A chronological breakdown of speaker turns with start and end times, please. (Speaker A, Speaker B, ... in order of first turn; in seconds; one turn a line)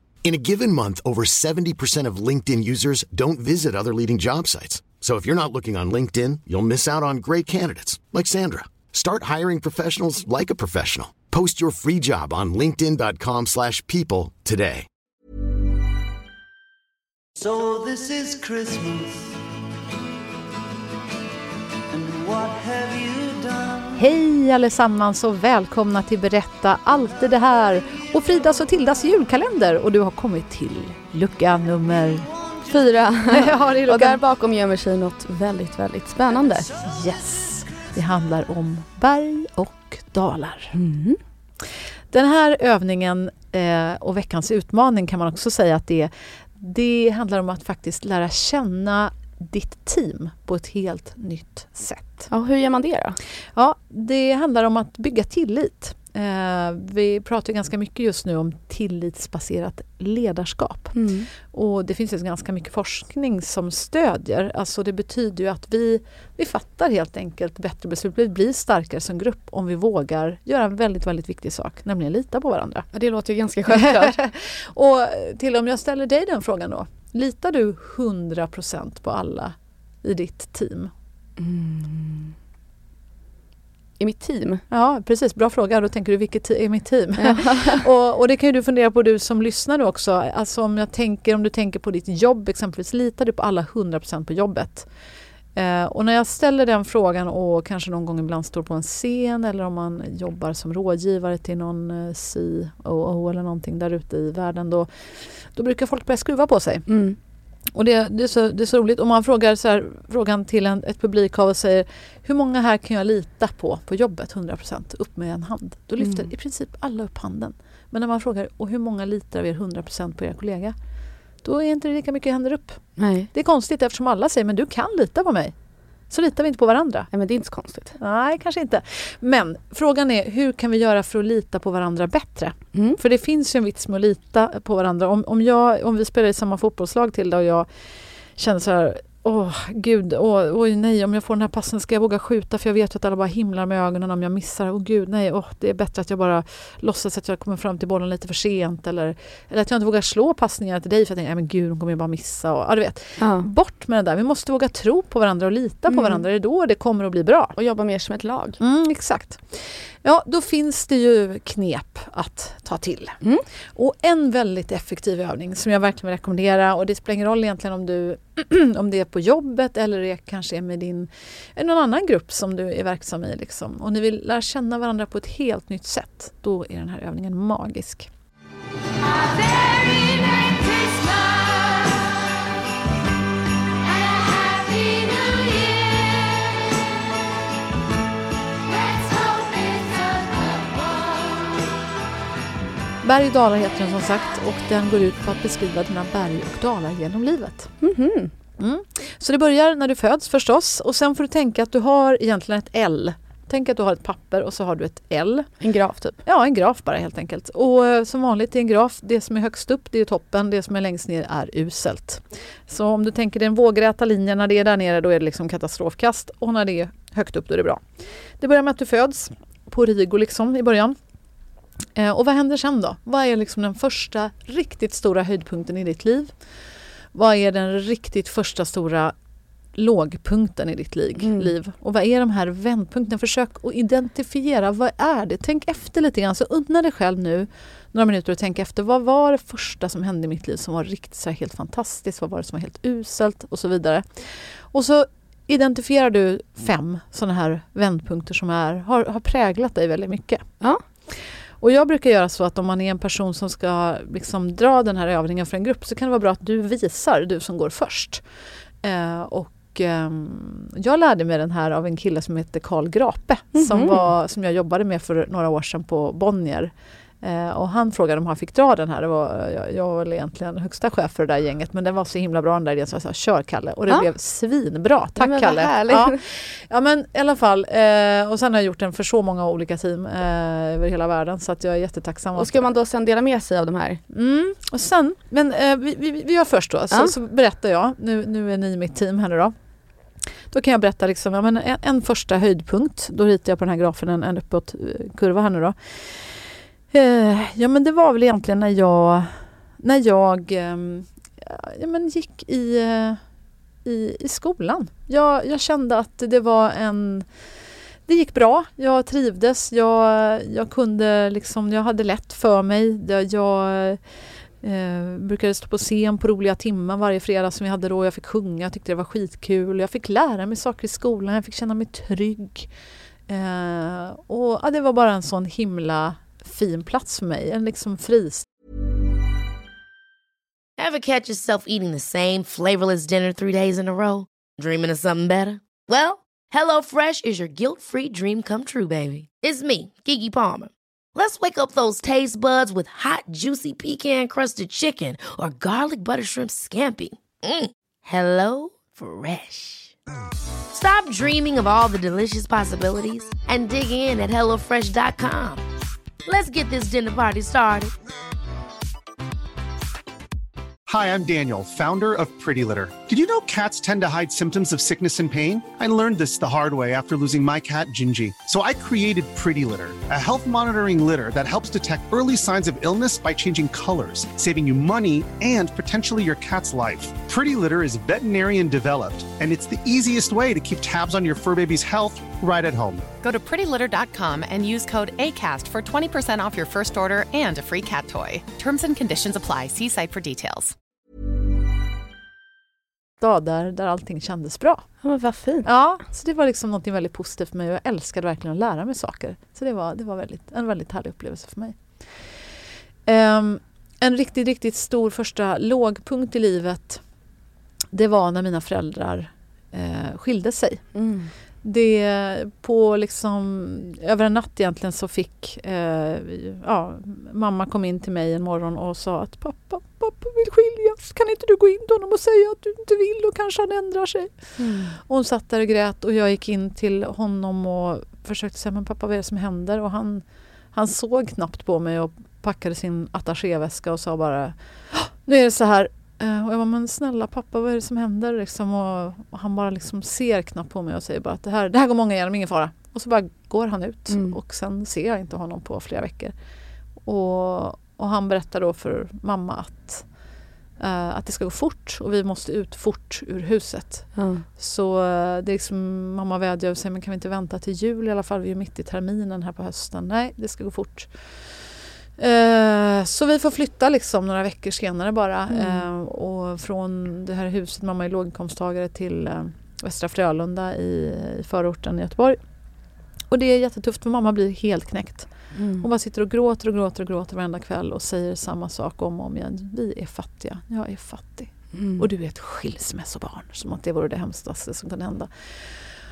Speaker A: 0.2-14.9
Speaker B: 17.4-19.3
Speaker B: 21.9-23.9
Speaker C: 23.9-32.3
Speaker D: 32.6-36.7
Speaker C: 33.3-34.2
Speaker C: 36.8-40.8
Speaker D: 40.7-41.2
Speaker C: 42.1-52.3
Speaker D: 52.3-53.2
Speaker C: 53.5-72.9
Speaker D: 60.9-61.3
Speaker D: 72.9-74.1
Speaker C: 73.7-80.9
Speaker D: 81.4-82.3
Speaker D: 84.0-84.6
Speaker C: 84.7-94.9
Speaker D: 87.1-87.8
Speaker C: 95.5-106.9
Speaker D: 106.9-107.2
Speaker C: 107.7-120.7
Speaker D: 116.0-116.3
Speaker C: 121.4-125.5
Speaker D: 123.0-123.3
Speaker C: 126.1-127.1
Speaker D: 127.1-128.0
Speaker C: 128.0-137.7
Speaker C: 138.3-157.6
Speaker D: 153.2-153.5
Speaker D: 155.9-156.2
Speaker D: 157.6-158.6
Speaker C: 158.6-163.2
Speaker C: 163.7-178.1
Speaker E: 179.4-181.3
Speaker E: 184.6-185.6
Speaker C: 193.0-197.7
Speaker D: 197.8-198.3
Speaker C: 198.6-205.5
Speaker D: 205.6-206.2
Speaker C: 206.2-217.8
Speaker C: 218.4-220.9
Speaker C: 221.9-226.3
Speaker C: 227.1-229.1
Speaker C: 229.7-250.5
Speaker D: 231.2-231.5
Speaker C: 251.1-258.2
Speaker C: 258.8-282.6
Speaker D: 263.5-264.1
Speaker D: 275.2-276.2
Speaker D: 282.3-284.0
Speaker C: 284.1-289.5
Speaker C: 290.5-303.2
Speaker C: 303.8-307.3
Speaker C: 308.1-314.0
Speaker C: 314.6-322.7
Speaker C: 323.3-328.5
Speaker E: 330.8-349.9
Speaker E: 350.7-355.6
Speaker E: 356.2-357.9
Speaker F: 360.9-383.1
Speaker G: 383.2-390.7
Speaker C: 393.2-394.9
Speaker D: 395.0-395.6
Speaker C: 395.6-402.0
Speaker C: 403.0-407.0
Speaker C: 407.9-410.9
Speaker D: 410.9-411.3
Speaker C: 411.6-446.3
Speaker D: 424.6-424.9
Speaker D: 444.1-444.4
Speaker C: 447.0-450.1
Speaker C: 450.8-461.5
Speaker D: 454.1-454.4
Speaker C: 462.2-472.4
Speaker D: 465.5-465.8
Speaker C: 473.3-485.8
Speaker D: 475.5-475.9
Speaker D: 481.7-482.0